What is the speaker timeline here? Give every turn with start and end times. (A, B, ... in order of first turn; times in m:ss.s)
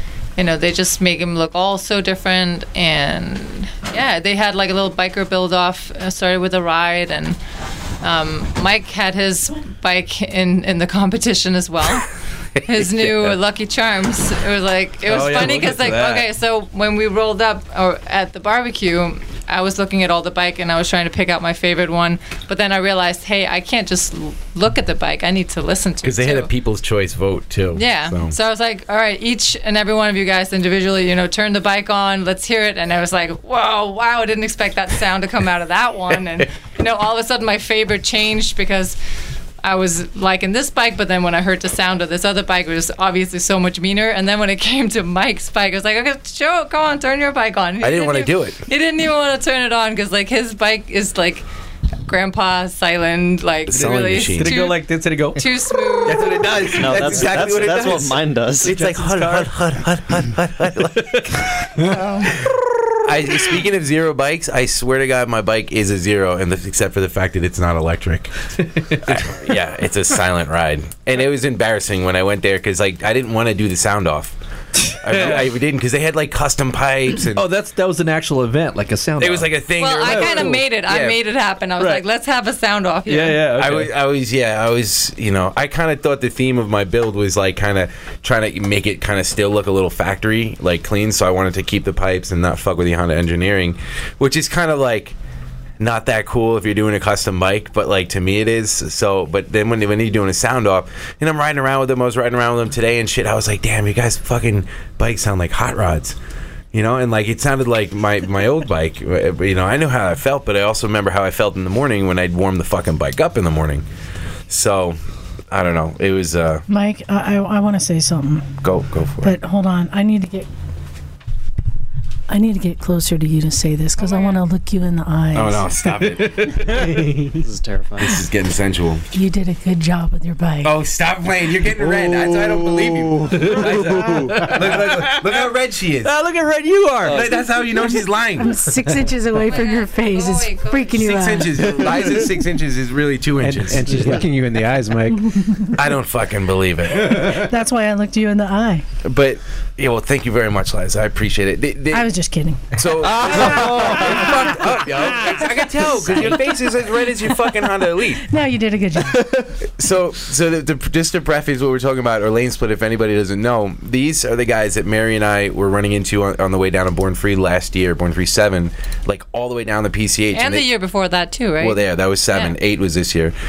0:00.4-0:07.4 A
0:08.0-0:12.1 A
0:12.6-0:26.5 A
0:15.0-0:16.3 B
0:26.0-0:28.3 C
0:27.8-0:39.0 A
0:39.6-0:51.4 A
0:47.8-0:48.6 C
0:52.1-0:56.7 A
0:53.7-0:54.5 C
0:53.7-0:55.5 B
0:56.1-1:01.2 C
0:56.7-0:58.8 D
0:57.0-0:57.3 B
0:58.6-0:59.7 B
1:00.8-1:02.3 B
1:03.0-1:08.3 C
1:08.7-1:09.2 B
1:09.0-1:14.4 C
1:14.9-1:15.5 B
1:14.9-1:17.4 C
1:17.3-1:20.6 B
1:19.2-1:21.2 C
1:19.8-1:23.4 A
1:21.8-1:22.0 B
1:23.1-1:23.9 B
1:23.6-1:35.2 C
1:35.8-1:46.2 C
1:46.7-1:53.8 C
1:54.5-1:55.0 C
1:55.5-1:56.6 C
1:56.7-1:58.5 E
1:58.6-1:59.4 C
1:59.2-2:00.5 E
2:02.3-2:06.1 E
2:04.0-2:04.4 A
2:05.3-2:07.2 C
2:06.2-2:07.4 B
2:07.4-2:08.2 D
2:08.0-2:09.0 C
2:09.1-2:10.8 E
2:10.6-2:16.1 C
2:13.3-2:15.5 B
2:16.0-2:17.5 B
2:17.0-2:18.6 C
2:17.8-2:21.7 E
2:19.4-2:21.1 A
2:21.0-2:24.2 C
2:23.4-2:25.3 F
2:23.9-2:24.2 B
2:25.4-2:25.7 E
2:25.7-2:27.4 C
2:27.1-2:28.8 E
2:29.0-2:32.1 C
2:31.9-2:34.3 E
2:32.7-2:38.3 C
2:33.4-2:33.9 F
2:33.6-2:34.0 B
2:35.4-2:36.5 E
2:38.2-2:39.4 E
2:39.8-2:50.7 C
2:50.3-2:52.6 A
2:51.6-2:53.3 C